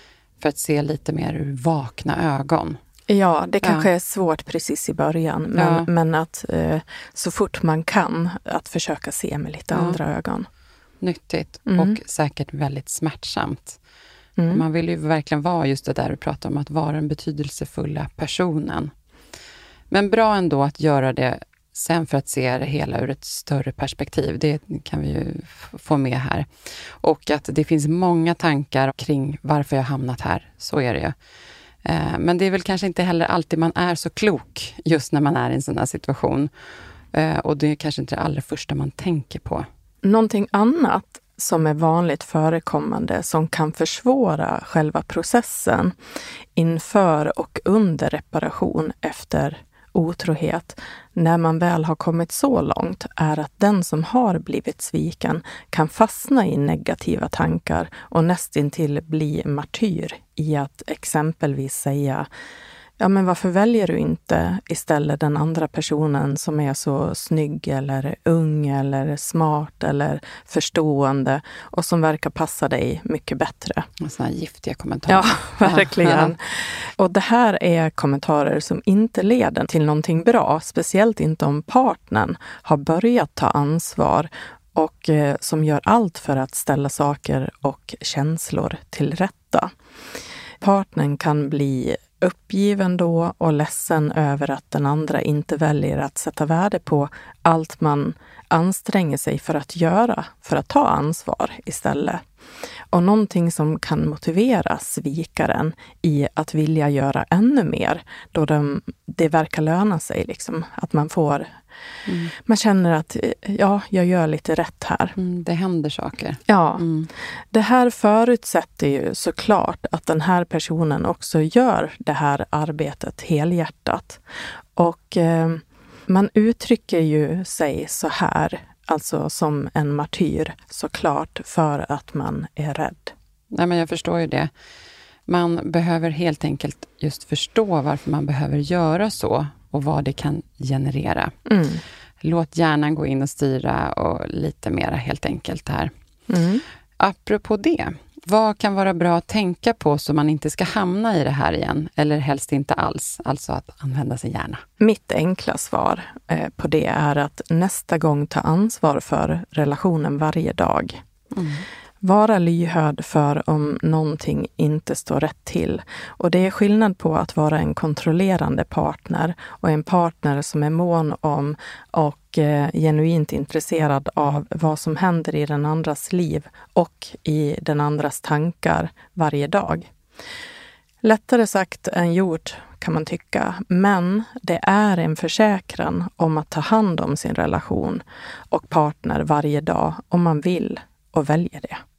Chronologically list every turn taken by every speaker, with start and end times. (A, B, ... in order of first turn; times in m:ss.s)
0:00.4-0:02.8 A
0:03.1-0:10.5 B
0:03.6-0:03.9 A
0:05.6-0:05.9 A
0:09.7-0:10.0 A
0:11.0-0:13.8 A
0:11.7-0:12.0 B
0:14.4-0:14.6 B
0:14.5-0:18.9 A
0:19.9-0:31.2 A
0:31.8-0:36.5 A
0:37.1-0:39.7 A
0:40.0-0:46.0 B
0:46.6-1:02.3 B
1:03.0-1:13.9 B
1:14.0-1:16.3 A
1:15.1-1:29.7 B
1:30.6-1:42.2 B
1:42.9-1:51.6 B
1:52.1-1:52.3 A
1:52.3-1:55.2 B
1:55.2-1:57.1 A
1:56.5-1:56.8 B
1:57.5-2:04.2 B
2:04.8-2:13.1 B
2:13.5-2:14.5 A
2:15.3-2:21.4 A
2:21.5-2:21.8 B
2:22.2-2:25.9 A
2:26.3-2:26.6 B
2:27.0-2:34.6 A
2:34.8-2:41.0 B
2:41.3-2:41.6 A
2:42.0-2:59.9 B
3:01.0-3:11.8 B